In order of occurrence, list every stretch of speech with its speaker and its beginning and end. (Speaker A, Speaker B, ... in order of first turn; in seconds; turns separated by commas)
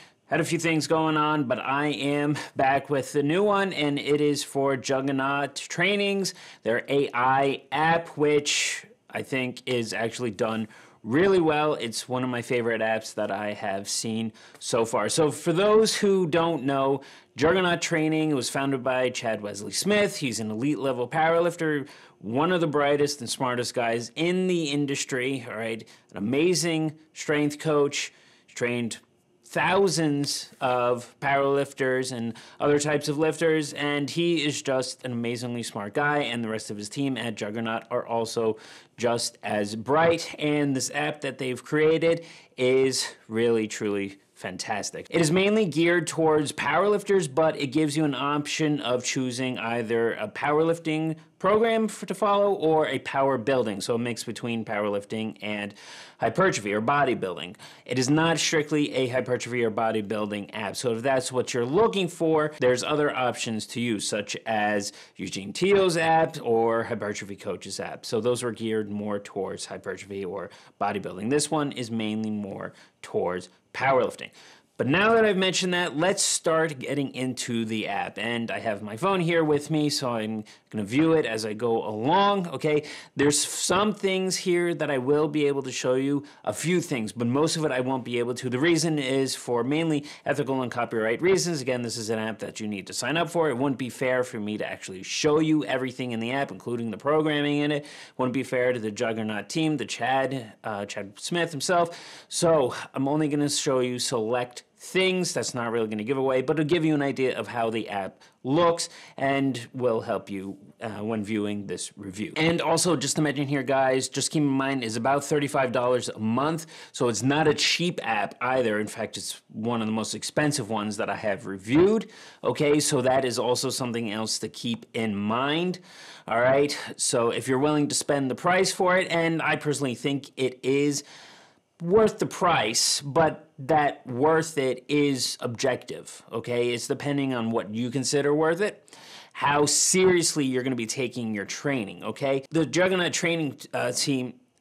Speaker A: 0.3-131.1, Speaker A: 131.8-144.4